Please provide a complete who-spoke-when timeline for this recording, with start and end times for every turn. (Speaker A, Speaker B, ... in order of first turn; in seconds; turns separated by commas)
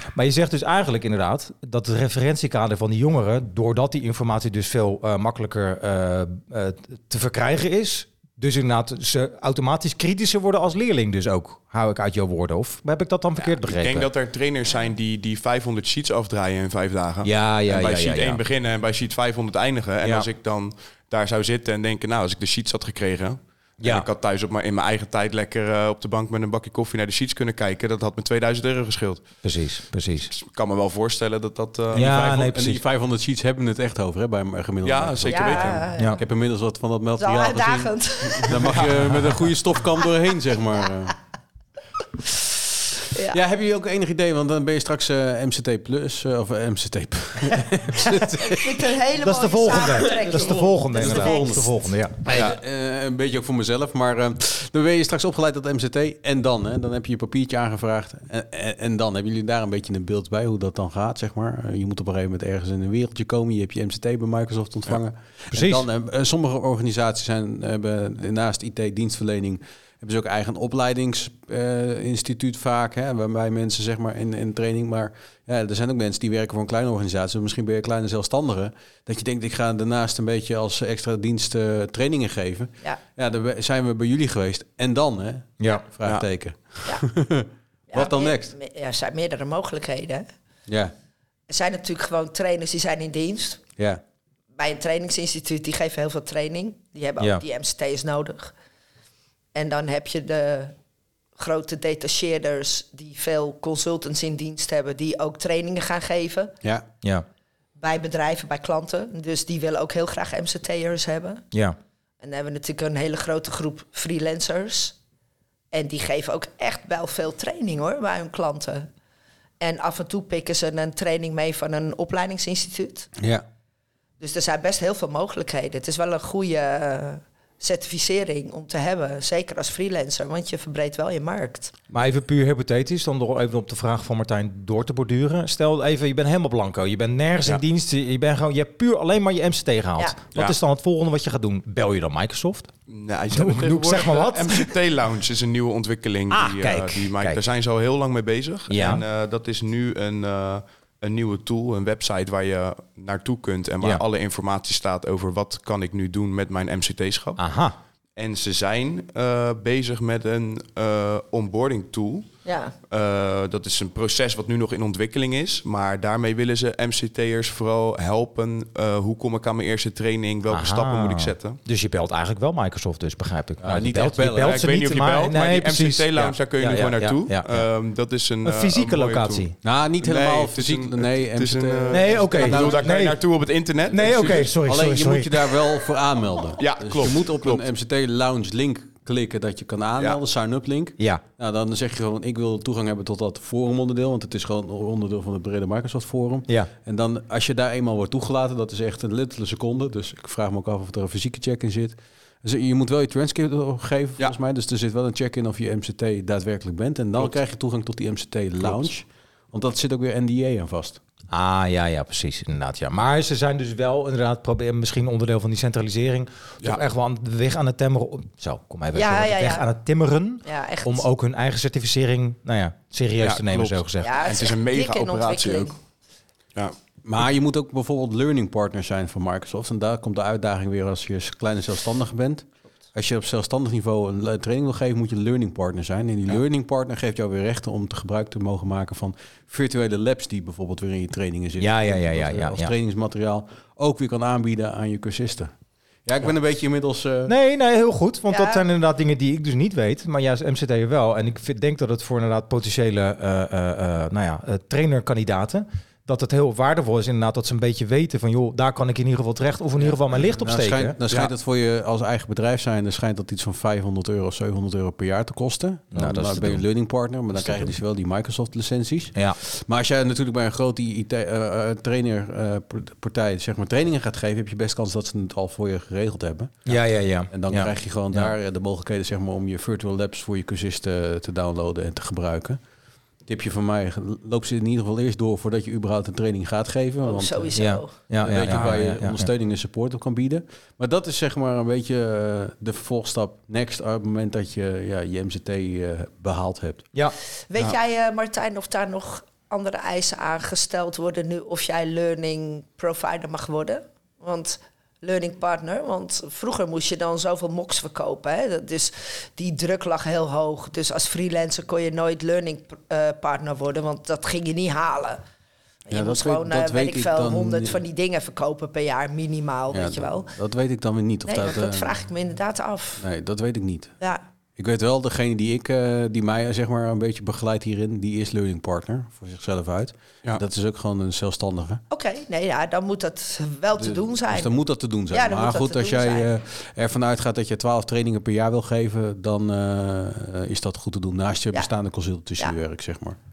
Speaker A: 0.1-14.1, Speaker B: 13.4-29.3, Speaker A: 17.2-18.4, Speaker A: 20.0-20.3, Speaker A: 23.8-24.1, Speaker A: 29.4-30.3, Speaker B: 30.3-32.0, Speaker C: 31.9-41.2, Speaker A: 31.9-32.8, Speaker B: 34.8-35.8, Speaker D: 35.3-36.2, Speaker D: 37.2-38.8, Speaker B: 38.8-39.0, Speaker D: 43.1-43.4, Speaker C: 43.3-48.9, Speaker D: 48.4-51.6, Speaker A: 49.2-52.5, Speaker C: 49.9-51.7, Speaker C: 52.2-88.5, Speaker B: 52.3-52.6, Speaker A: 65.5-65.9, Speaker A: 85.6-85.8, Speaker D: 87.9-90.3, Speaker C: 90.7-90.9, Speaker D: 91.5-93.6, Speaker D: 94.6-98.5, Speaker D: 99.5-100.7, Speaker D: 101.3-106.5, Speaker D: 107.8-111.4, Speaker D: 112.2-115.0, Speaker D: 115.7-118.9, Speaker D: 119.6-123.1, Speaker C: 123.2-123.4, Speaker D: 124.2-131.7, Speaker A: 131.9-142.7, Speaker B: 142.9-157.4, Speaker A: 143.3-144.7, Speaker A: 146.3-147.4, Speaker A: 148.7-149.0, Speaker A: 157.4-157.7, Speaker B: 158.2-162.3, Speaker D: 162.4-162.7, Speaker B: 162.9-171.6, Speaker A: 170.5-177.7, Speaker C: 173.6-174.6, Speaker B: 174.4-179.4, Speaker A: 178.4-179.5, Speaker C: 179.6-182.9, Speaker B: 180.0-184.5, Speaker A: 181.9-183.2, Speaker A: 183.9-185.7, Speaker C: 183.9-211.0, Speaker B: 186.6-187.6, Speaker A: 211.3-224.2, Speaker D: 218.9-219.7, Speaker D: 220.4-221.1, Speaker B: 223.2-225.7, Speaker D: 224.0-225.7, Speaker C: 227.0-245.5, Speaker A: 241.6-242.7, Speaker C: 246.1-247.3, Speaker A: 247.3-260.9, Speaker D: 248.3-248.6, Speaker C: 259.8-276.8, Speaker A: 265.9-266.6, Speaker A: 267.3-267.7, Speaker A: 276.6-278.3, Speaker C: 277.3-282.6, Speaker C: 283.2-287.6, Speaker D: 287.0-287.9, Speaker A: 287.6-289.3, Speaker C: 288.2-296.9, Speaker D: 297.5-315.2, Speaker D: 315.9-320.3, Speaker C: 315.9-317.8, Speaker C: 319.7-321.9, Speaker D: 321.3-323.0, Speaker C: 323.0-323.9, Speaker C: 324.6-331.8, Speaker D: 331.9-334.5, Speaker C: 333.8-343.2, Speaker D: 335.1-336.3